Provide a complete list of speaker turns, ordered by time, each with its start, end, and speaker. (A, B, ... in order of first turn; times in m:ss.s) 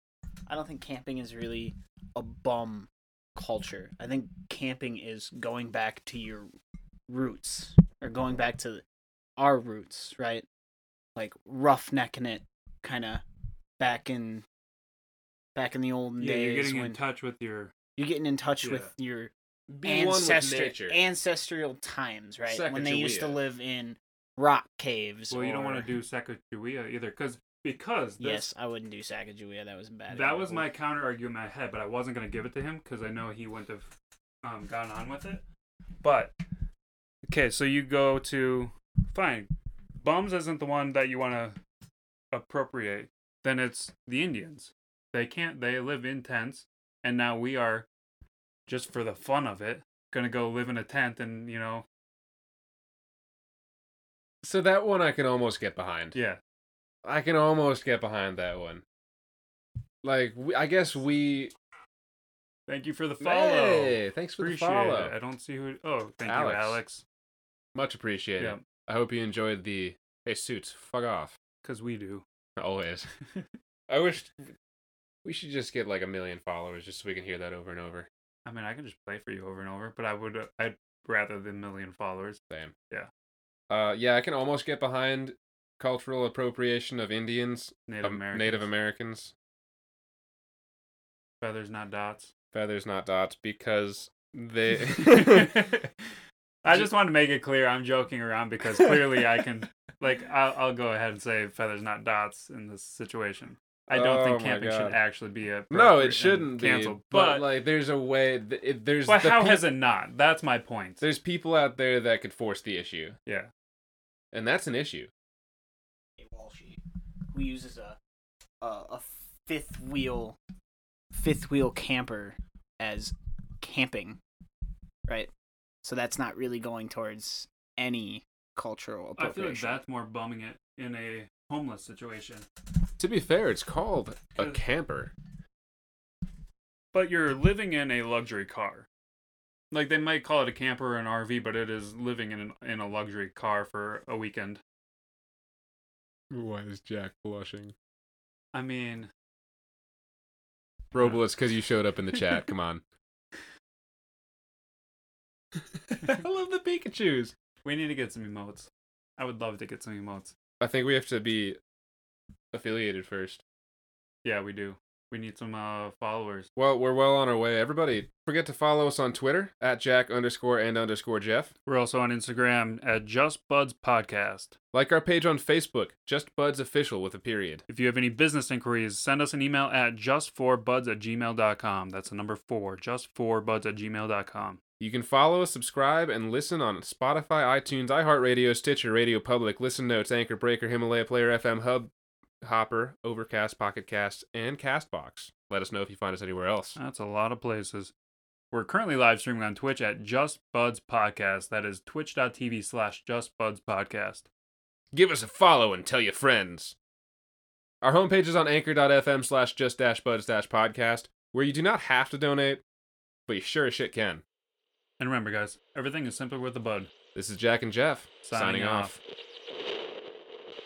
0:00.5-0:06.5 A
0:07.1-0:08.8 A
0:09.4-0:10.4 A
0:11.2-0:13.2 A
0:13.8-0:14.4 A
0:15.5-0:17.0 A
0:16.2-0:17.7 B
0:18.0-0:19.3 A
0:18.6-0:18.9 B
0:19.7-0:21.0 C
0:19.8-0:25.9 A
0:22.5-0:23.4 C
0:25.3-0:28.5 B
0:28.2-0:30.7 A
0:30.1-0:33.9 B
0:34.4-0:35.4 B
0:36.0-0:36.4 B
0:37.3-0:41.6 B
0:42.3-0:47.9 B
0:48.7-0:51.8 B
0:54.4-0:56.1 C
0:56.1-0:56.4 B
0:57.0-0:58.8 C
1:00.0-1:01.5 C
1:02.7-1:07.0 B
1:03.2-1:05.1 C
1:06.3-1:06.8 C
1:07.7-1:11.3 C
1:11.6-1:12.2 B
1:12.6-1:13.1 C
1:13.9-1:14.5 C
1:15.2-1:18.1 C
1:18.4-1:23.1 B
1:23.7-1:29.3 C
1:27.9-1:28.7 B
1:31.4-1:32.3 B
1:32.5-1:35.8 C
1:34.9-1:35.9 B
1:36.6-1:36.9 C
1:36.6-1:47.5 B
1:43.9-1:45.0 C
1:45.7-1:49.7 C
1:49.0-1:51.0 B
1:51.0-1:53.2 C
1:54.3-1:55.1 C
1:56.2-1:56.8 A
1:57.3-1:58.0 A
1:58.6-2:00.4 A
2:01.1-2:04.2 A
2:05.8-2:09.8 A
2:09.2-2:12.4 B
2:13.0-2:15.1 C
2:16.9-2:18.9 B
2:19.7-2:24.6 B
2:26.3-2:27.7 C
2:28.5-2:29.1 B
2:30.9-2:32.8 C
2:35.6-2:37.3 C
2:37.6-2:40.3 B
2:40.6-2:41.6 C
2:42.5-2:43.4 C
2:44.2-2:46.5 B
2:46.6-2:51.5 C
2:51.6-2:54.6 B
2:54.7-2:57.6 C
2:57.7-3:04.6 B
3:04.8-3:11.9 C
3:12.4-3:16.8 C
3:16.8-3:17.9 B
3:18.5-3:24.3 B
3:24.9-3:26.7 C
3:27.8-3:32.6 C
3:33.3-3:34.2 C
3:35.0-3:36.9 B
3:37.1-3:39.0 C
3:38.2-3:39.0 B